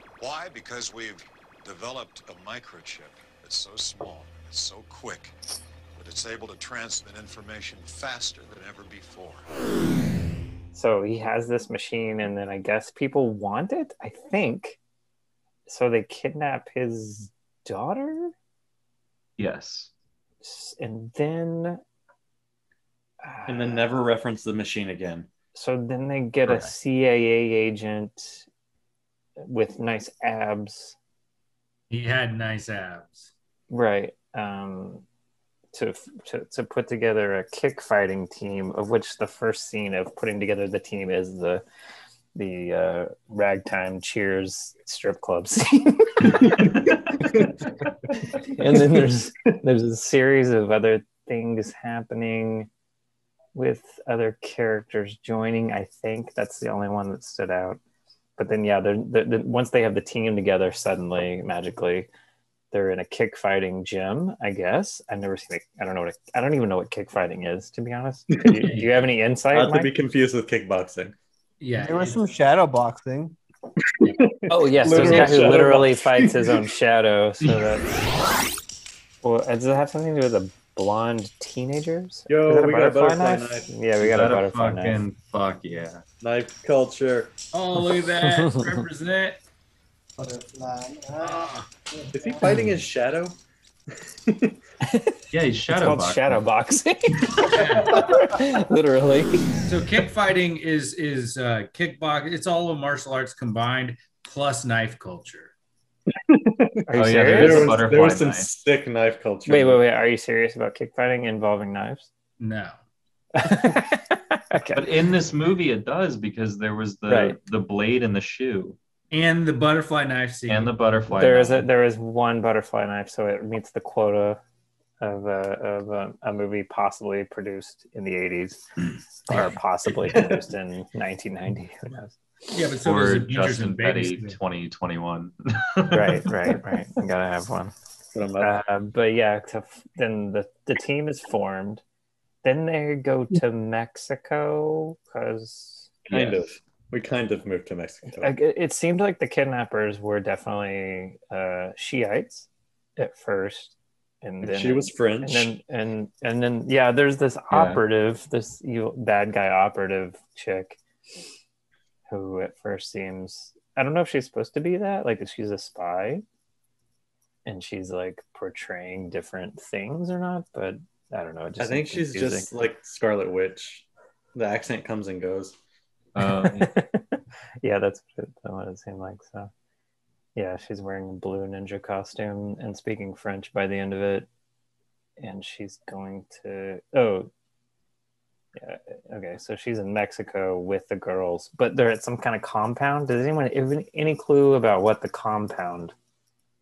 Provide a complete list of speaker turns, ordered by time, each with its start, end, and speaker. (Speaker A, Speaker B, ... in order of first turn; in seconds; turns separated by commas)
Speaker A: 0.2-5.3, Speaker A: 6.0-9.5, Speaker B: 10.7-14.8, Speaker B: 15.7-18.3, Speaker C: 19.4-19.9, Speaker B: 20.4-21.8, Speaker B: 23.2-23.9, Speaker D: 23.5-25.3, Speaker B: 25.5-28.5, Speaker C: 26.5-26.7, Speaker B: 29.4-31.0, Speaker E: 31.9-33.3, Speaker B: 33.7-35.0, Speaker B: 35.7-41.6, Speaker B: 42.4-47.5, Speaker D: 46.4-46.7, Speaker D: 47.2-47.5, Speaker B: 48.2-52.7, Speaker D: 48.6-49.1, Speaker B: 53.5-57.8, Speaker B: 58.4-62.1, Speaker B: 62.7-69.9, Speaker D: 68.3-68.8, Speaker E: 68.6-68.9, Speaker D: 69.5-71.1, Speaker E: 71.6-72.2, Speaker F: 71.8-73.4, Speaker D: 74.0-76.6, Speaker B: 74.5-78.1, Speaker E: 74.8-75.5, Speaker B: 79.2-85.0, Speaker D: 82.3-83.7, Speaker C: 84.0-86.0, Speaker D: 86.2-87.3, Speaker E: 87.5-89.4, Speaker B: 88.2-88.8, Speaker F: 90.2-92.7, Speaker E: 91.2-91.7, Speaker D: 92.1-93.4, Speaker D: 94.2-94.6, Speaker B: 94.9-95.2, Speaker C: 95.3-96.4, Speaker B: 95.7-99.6, Speaker E: 97.5-98.0, Speaker E: 99.6-105.5, Speaker D: 106.1-109.8, Speaker B: 106.9-108.0, Speaker C: 107.0-108.5, Speaker B: 109.5-112.1, Speaker E: 112.4-112.8, Speaker B: 113.3-115.1, Speaker C: 114.7-118.8, Speaker B: 117.1-117.4, Speaker E: 119.1-120.7, Speaker C: 120.5-121.7, Speaker B: 121.1-124.4, Speaker B: 125.0-128.6, Speaker B: 129.3-132.2, Speaker D: 130.1-130.4, Speaker E: 132.5-134.4, Speaker C: 132.8-136.4, Speaker B: 135.9-137.7, Speaker D: 138.1-138.5, Speaker B: 138.4-141.8, Speaker B: 142.4-146.3, Speaker D: 146.1-148.4, Speaker B: 148.2-160.8, Speaker D: 154.4-155.6, Speaker C: 157.5-157.8, Speaker B: 162.1-166.2, Speaker B: 167.4-172.5, Speaker D: 171.6-175.6, Speaker C: 176.1-176.7, Speaker B: 176.2-179.5, Speaker B: 180.3-184.3, Speaker B: 185.2-187.3, Speaker B: 188.5-195.9